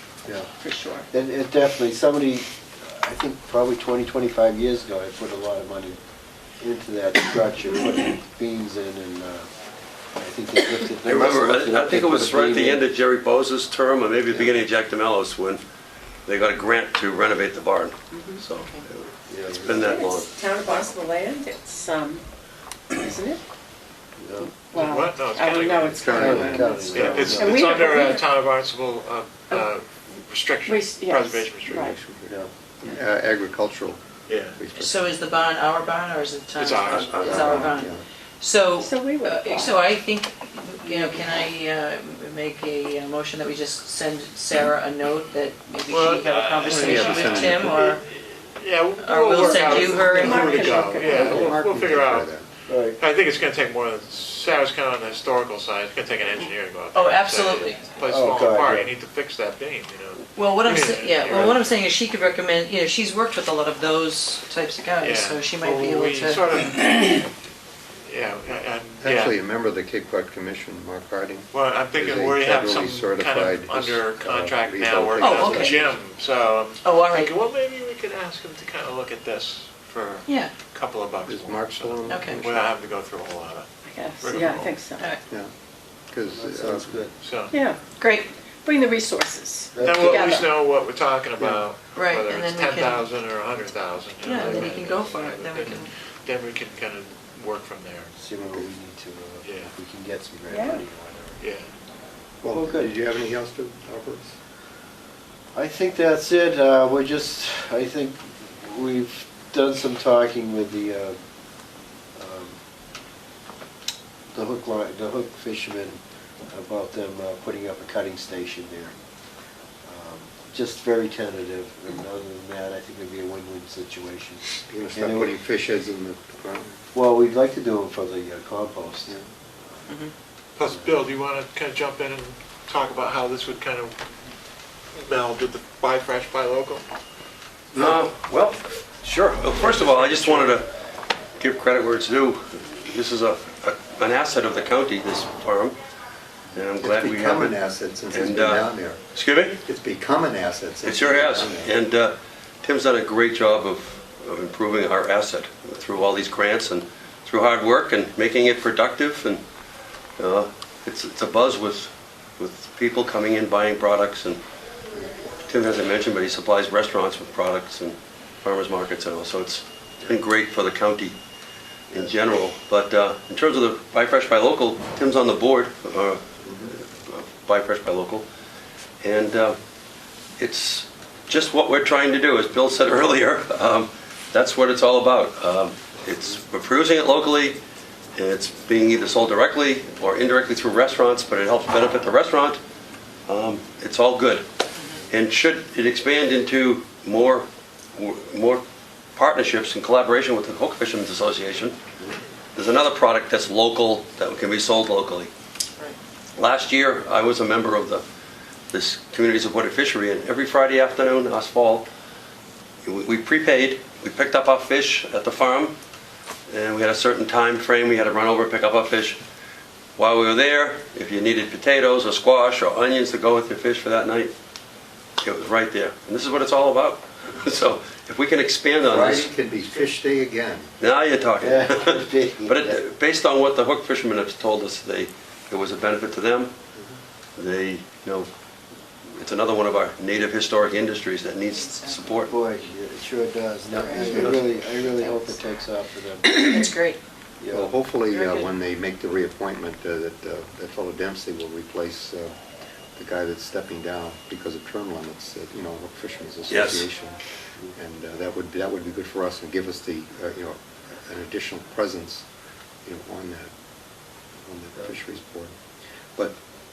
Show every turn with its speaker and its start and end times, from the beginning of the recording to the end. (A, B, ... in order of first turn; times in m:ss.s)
0:00.2-0:00.5 A
0:00.6-0:01.1 B
0:01.1-0:06.0 A
0:06.6-0:09.5 A
0:10.1-0:12.9 A
0:11.0-0:15.6 C
0:16.2-0:20.3 C
0:18.1-0:18.4 B
0:19.3-0:19.9 A
0:19.7-0:22.2 B
0:22.9-0:23.4 B
0:24.2-0:24.5 A
0:24.4-0:28.2 B
0:24.7-0:31.9 D
0:25.9-0:27.4 E
0:26.1-0:27.7 A
0:30.6-0:32.0 B
0:31.7-0:34.0 E
0:34.3-0:34.6 D
0:34.5-0:35.1 E
0:34.8-0:48.0 F
0:36.5-0:37.7 D
0:36.9-0:37.3 C
0:37.2-0:38.0 E
0:38.7-0:40.0 B
0:40.8-0:41.5 B
0:45.9-0:52.3 D
0:46.6-0:47.7 E
0:49.0-0:50.7 F
0:49.5-0:51.5 B
0:50.3-0:52.4 E
0:52.7-0:53.0 A
0:53.0-1:01.7 D
0:56.9-0:57.9 F
0:58.1-0:58.9 A
1:00.3-1:06.4 F
1:05.0-1:07.3 D
1:08.0-1:09.4 D
1:09.0-1:16.0 E
1:11.5-1:23.7 D
1:15.2-1:15.8 F
1:16.8-1:17.3 F
1:20.3-1:20.5 F
1:21.3-1:22.7 E
1:22.1-1:22.4 F
1:23.8-1:25.0 B
1:24.2-1:24.9 D
1:26.1-1:27.0 E
1:26.3-1:27.1 A
1:27.2-1:27.6 D
1:27.5-1:27.8 B
1:28.0-1:28.3 F
1:28.6-1:30.5 B
1:29.7-1:30.4 A
1:29.8-1:38.1 D
1:31.9-1:33.0 F
1:34.2-1:35.9 F
1:34.4-1:34.7 A
1:38.2-1:41.4 A
1:38.4-1:38.7 E
1:39.4-1:39.7 D
1:40.5-1:40.8 B
1:41.4-1:41.7 D
1:42.4-1:44.3 E
1:42.5-1:42.9 A
1:45.5-1:51.2 A
1:52.2-1:52.6 A
1:54.3-1:58.9 A
1:59.8-2:05.4 A
2:04.6-2:06.8 E
2:06.9-2:09.2 A
2:10.6-2:14.0 D
2:14.9-2:16.8 D
2:17.7-2:18.0 E
2:17.7-2:20.7 C
2:19.5-2:20.6 D
2:21.4-2:25.8 C
2:26.5-2:27.6 C
2:26.8-2:29.0 E
2:28.1-2:29.6 C
2:29.6-2:31.7 E
2:30.8-2:39.4 C
2:40.2-2:44.4 C
2:45.5-2:51.2 C
2:51.9-2:58.2 C
2:56.4-2:56.7 E
2:59.0-2:59.6 C
3:00.4-3:07.6 C
3:08.2-3:12.6 C
3:13.3-3:14.4 C
3:15.1-3:18.6 C
3:19.2-3:21.8 C
3:22.5-3:25.3 C
3:26.4-3:28.0 C
3:28.7-3:31.9 C
3:32.8-3:35.8 C
3:36.5-3:39.2 C
3:40.0-3:44.3 C
3:45.2-3:49.3 C
3:47.4-3:47.7 E
3:48.9-3:50.7 E
3:49.1-3:49.9 D
3:50.8-3:56.5 C
3:51.4-3:52.8 A
3:57.4-3:58.3 C
3:59.1-4:02.3 C
4:01.5-4:02.1 F
4:02.3-4:06.5 A
4:03.7-4:04.5 E
4:03.8-4:05.4 F
4:06.2-4:07.0 F
4:07.4-4:07.7 A
4:07.5-4:12.3 E
4:08.1-4:08.5 F
4:13.0-4:17.2 E
4:16.5-4:16.9 C
4:17.7-4:22.2 E
4:22.8-4:23.5 E
4:24.4-4:25.5 E